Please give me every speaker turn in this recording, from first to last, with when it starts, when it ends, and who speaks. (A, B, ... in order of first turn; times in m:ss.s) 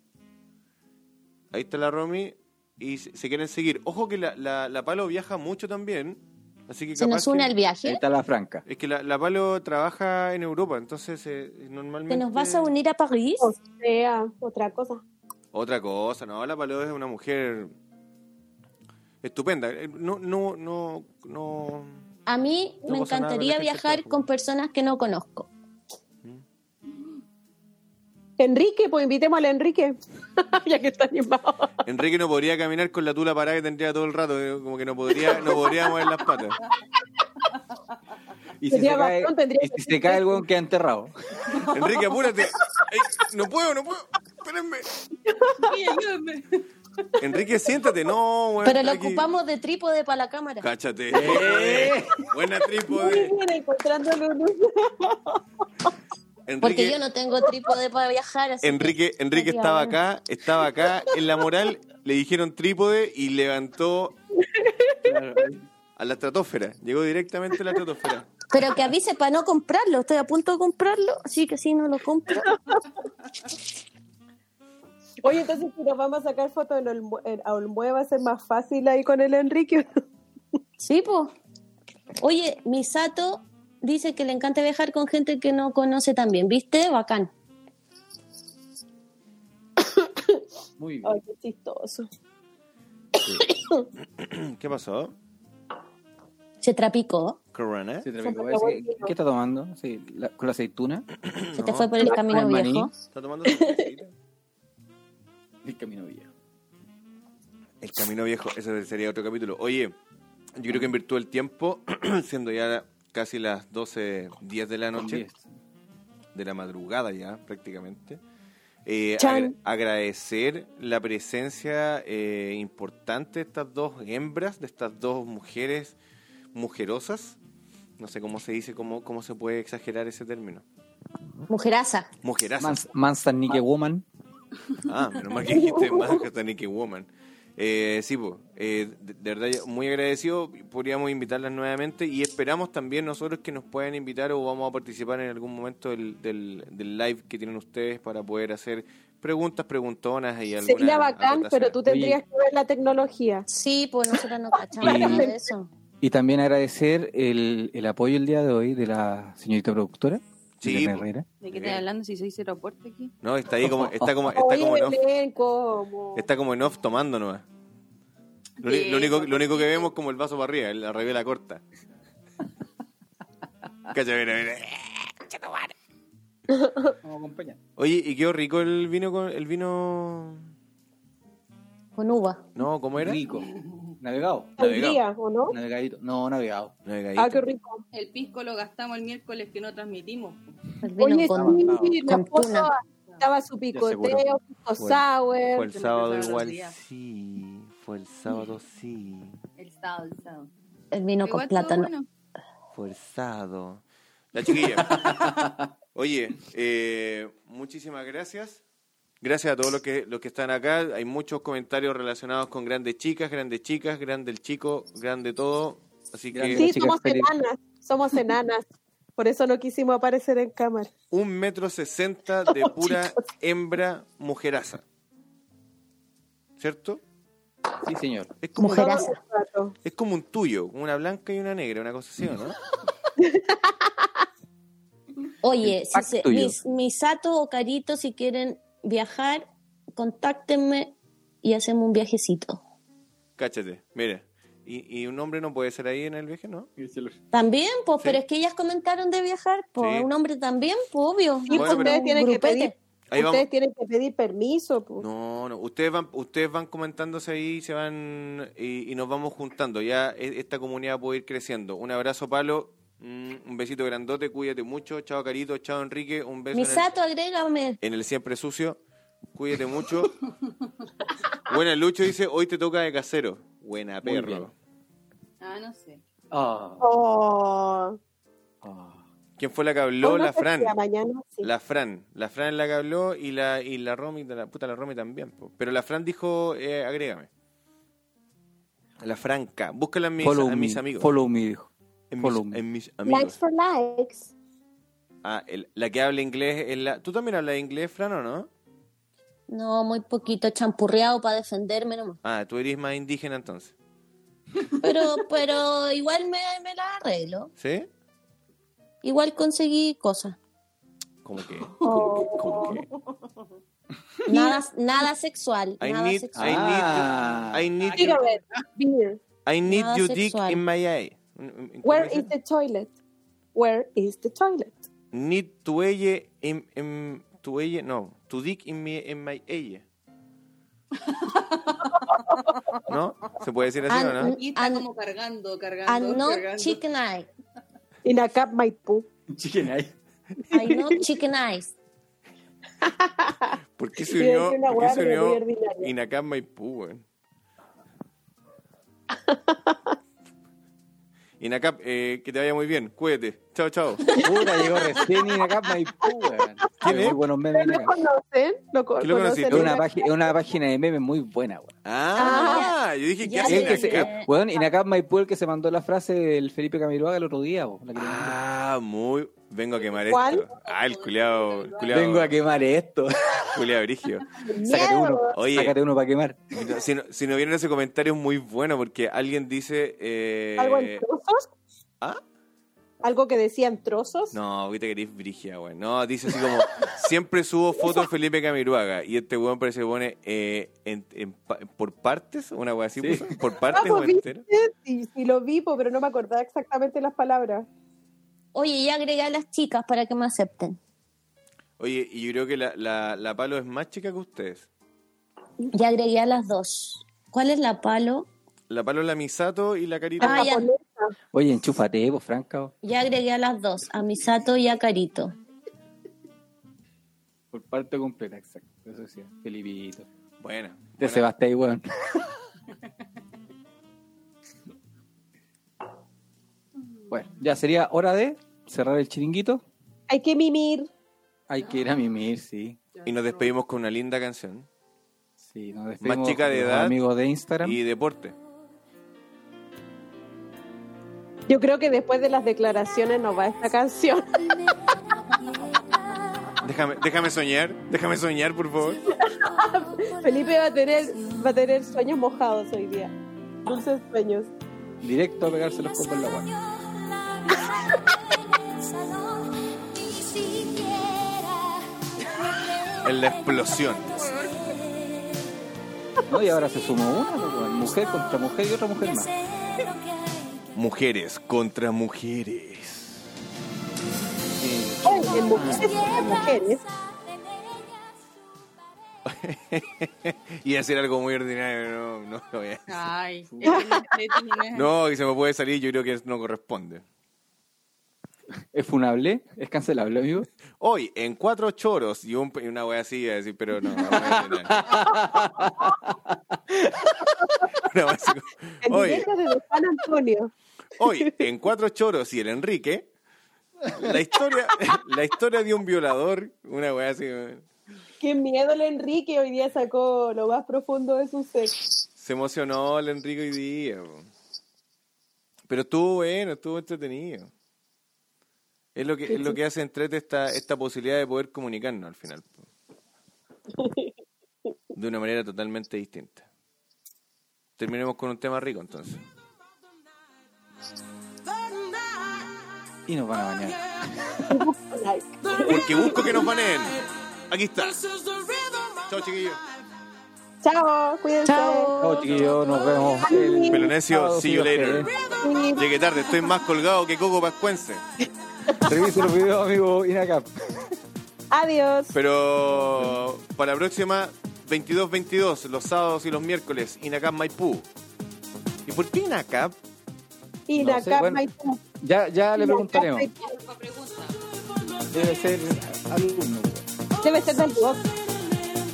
0:01.5-0:07.5 A
0:07.0-0:08.0 B
0:07.8-0:08.6 C
0:08.7-0:12.7 A
0:12.1-0:13.5 B
0:13.4-0:15.0 D
0:15.5-0:17.7 A
0:19.2-0:22.0 A
0:22.3-0:25.5 B
0:22.8-0:24.2 A
0:28.4-0:31.7 D
0:31.8-0:36.6 A
0:38.6-0:41.1 C
0:38.7-0:40.5 D
0:41.5-0:41.8 E
0:41.7-0:44.9 A
0:45.2-0:45.8 D
0:45.6-0:46.6 E
0:47.2-0:49.3 A
0:48.6-0:50.7 B
0:50.6-0:53.4 A
0:51.1-0:52.3 C
0:52.9-0:55.9 D
0:56.5-0:57.0 A
0:56.6-1:00.0 B
0:58.6-1:04.2 A
1:04.4-1:05.2 D
1:05.0-1:05.6 C
1:06.0-1:08.3 A
1:08.5-1:12.6 B
1:12.5-1:12.8 D
1:15.2-1:20.0 D
1:20.8-1:21.3 B
1:22.2-1:27.3 B
1:29.9-1:30.4 D
1:30.8-1:31.2 C
1:31.0-1:32.1 D
1:33.2-1:33.9 D
1:34.2-1:35.2 A
1:36.6-1:37.4 B
1:37.5-1:38.1 A
1:38.0-1:41.0 C
1:38.2-1:39.1 D
1:41.2-1:41.9 A
1:41.6-1:42.9 B
1:42.0-1:42.3 D
1:42.1-1:42.9 C
1:43.1-1:44.1 A
1:43.5-1:43.8 D
1:45.6-1:46.3 C
1:47.8-1:50.0 A
1:50.6-1:55.2 A
1:50.7-1:50.9 C
1:54.9-1:55.5 C
1:56.4-1:58.2 A
1:58.8-2:06.0 A
1:59.2-1:59.5 D
2:06.5-2:07.4 A
2:08.0-2:10.6 A
2:11.5-2:12.1 B
2:12.2-2:12.9 A
2:12.6-2:14.0 C
2:14.9-2:31.8 A
2:15.5-2:16.2 D
2:30.6-2:33.5 D
2:31.8-2:32.2 C
2:33.5-2:35.7 B
2:34.8-2:35.4 D
2:34.8-2:35.3 C
2:36.0-2:41.2 C
2:40.6-2:41.8 A
2:41.4-2:43.1 E
2:43.2-2:45.0 A
2:43.6-2:44.2 C
2:44.3-2:46.3 D
2:46.2-2:47.4 A
2:48.6-2:49.9 E
2:48.6-2:51.6 A
2:53.9-2:55.7 A
2:56.5-2:56.9 D
2:57.0-2:57.6 C
2:57.8-3:00.5 A
3:02.0-3:02.5 B
3:02.6-3:03.2 A
3:03.0-3:04.6 C
3:03.3-3:03.8 E
3:04.6-3:05.0 A
3:04.6-3:05.6 D
3:05.5-3:06.7 C
3:06.8-3:07.5 A
3:07.2-3:07.8 D
3:07.9-3:10.8 E
3:10.8-3:12.7 B
3:11.0-3:15.7 D
3:11.3-3:12.0 C
3:13.7-3:14.2 C
3:14.8-3:19.4 A
3:15.7-3:16.8 E
3:19.6-3:20.5 E
3:20.9-3:21.9 B
3:21.2-3:22.1 E
3:22.7-3:23.8 A
3:24.3-3:25.2 A
3:25.0-3:25.5 C
3:26.0-3:28.6 A
3:29.2-3:36.7 A
3:36.3-3:37.3 C
3:36.6-3:38.6 D
3:39.2-3:40.9 D
3:41.1-3:44.8 A
3:42.5-3:43.0 D
3:46.6-3:47.0 A
3:47.8-3:48.3 C
3:48.4-3:49.1 A
3:48.6-3:49.2 B
3:48.6-3:49.8 D
3:49.8-3:52.6 A
3:53.2-3:54.1 D
3:55.4-4:02.6 B
3:55.6-3:56.6 C
4:03.4-4:06.7 A
4:06.8-4:07.2 C
4:07.3-4:12.8 B
4:09.8-4:10.1 A
4:11.5-4:15.1 D
4:11.5-4:12.0 A
4:13.1-4:13.5 A
4:15.0-4:26.9 A
4:26.5-4:27.8 B
4:27.8-4:28.8 A
4:29.3-4:30.1 A
4:31.4-4:34.5 A
4:34.0-4:34.5 C
4:35.4-4:36.0 E
4:36.3-4:36.8 C
4:36.8-4:38.0 D
4:38.6-4:39.0 C
4:39.4-4:40.8 A
4:40.0-4:41.5 D
4:41.4-4:47.3 A
4:49.0-4:51.1 A
4:50.2-4:51.7 C
4:52.1-4:53.4 A
4:52.2-4:52.6 C
4:53.0-4:54.3 D
4:55.2-4:58.5 A
4:59.5-5:02.2 B
5:02.2-5:03.7 A
5:04.8-5:07.5 B
5:07.6-5:07.9 A
5:09.0-5:10.4 B
5:11.2-5:12.9 A
5:11.8-5:13.3 E
5:11.8-5:12.8 D
5:14.3-5:16.6 B
5:15.8-5:18.3 A
5:16.4-5:17.6 C
5:17.1-5:18.3 E
5:18.0-5:19.2 D
5:19.5-5:22.3 A
5:19.7-5:20.6 B
5:21.8-5:22.9 D
5:23.6-5:24.8 D
5:25.1-5:29.8 A
5:31.0-5:32.4 E
5:32.0-5:32.6 D
5:32.9-5:34.4 A
5:33.9-5:34.8 B
5:34.2-5:36.8 E
5:35.9-5:37.3 B
5:38.0-5:39.1 D
5:39.3-5:40.0 C
5:40.5-5:41.0 D
5:40.5-5:41.7 B
5:42.8-5:43.5 D
5:43.8-5:47.0 A
5:44.1-5:45.9 D
5:49.3-5:49.9 D
5:51.4-5:54.2 A
5:54.1-5:54.6 D
5:54.2-5:58.0 C
5:56.8-5:57.2 A
5:57.5-6:00.3 D
5:59.0-5:59.8 A
5:59.5-6:01.8 C
6:01.8-6:04.1 A
6:02.2-6:02.7 D
6:02.2-6:04.3 B
6:03.4-6:08.4 C
6:08.0-6:12.3 A
6:10.1-6:10.5 D
6:10.5-6:12.1 E
6:11.9-6:13.4 C
6:13.5-6:14.3 A
6:14.4-6:15.4 D
6:14.7-6:16.7 C
6:15.3-6:15.8 A
6:16.6-6:21.0 A
6:20.6-6:21.4 D
6:23.0-6:24.4 D
6:24.3-6:34.4 A
6:33.0-6:33.3 C
6:33.7-6:37.7 D
6:38.5-6:40.8 B
6:41.8-6:44.7 A
6:45.7-6:48.3 B
6:48.7-6:50.5 A
6:50.2-6:51.1 D
6:50.2-6:50.7 B
6:51.3-6:52.7 C
6:52.8-6:55.4 B
6:57.5-7:00.1 C
7:00.4-7:01.3 A
7:01.0-7:01.9 C
7:07.1-7:09.6 C
7:10.1-7:10.9 D
7:11.5-7:12.8 C
7:13.0-7:13.5 E
7:13.0-7:14.7 A
7:15.4-7:17.8 C
7:16.0-7:17.0 A
7:17.6-7:18.4 A
7:21.5-7:24.7 D
7:26.6-7:29.1 A
7:29.1-7:33.1 D
7:33.6-7:34.5 D
7:35.0-7:36.6 C
7:43.0-7:44.6 A
7:46.3-7:49.4 C
7:50.7-7:53.2 A
7:54.6-7:56.3 C
7:55.0-7:56.8 D
7:59.2-8:03.0 A
8:02.9-8:04.9 E
8:03.5-8:03.8 C
8:03.6-8:04.1 D
8:04.7-8:07.0 A
8:08.7-8:10.5 C
8:10.8-8:15.0 A
8:14.0-8:17.7 C
8:17.4-8:17.7 D
8:17.8-8:19.2 A
8:18.8-8:20.5 D
8:21.0-8:23.1 A
8:21.1-8:21.4 D
8:23.9-8:27.6 A
8:28.2-8:31.8 D
8:32.2-8:34.3 A
8:35.7-8:37.5 A
8:39.0-8:42.7 A
8:39.3-8:39.6 D
8:43.7-8:44.1 D
8:45.0-8:46.5 A
8:47.8-8:49.2 A
8:53.1-8:54.6 C
8:54.5-8:56.5 D
8:55.7-8:58.1 A
8:59.0-8:59.6 A
9:00.6-9:01.9 D
9:01.4-9:03.3 B
9:02.0-9:05.1 C
9:03.2-9:03.9 D
9:03.7-9:05.1 A
9:05.4-9:05.9 D
9:05.8-9:08.0 A
9:08.8-9:11.0 C
9:11.5-9:12.2 D
9:12.1-9:17.9 A
9:18.9-9:19.8 A
9:20.7-9:21.8 D
9:20.8-9:21.4 C
9:22.0-9:23.3 C
9:22.6-9:23.6 D
9:23.3-9:24.4 E
9:25.1-9:26.8 C
9:27.2-9:28.0 D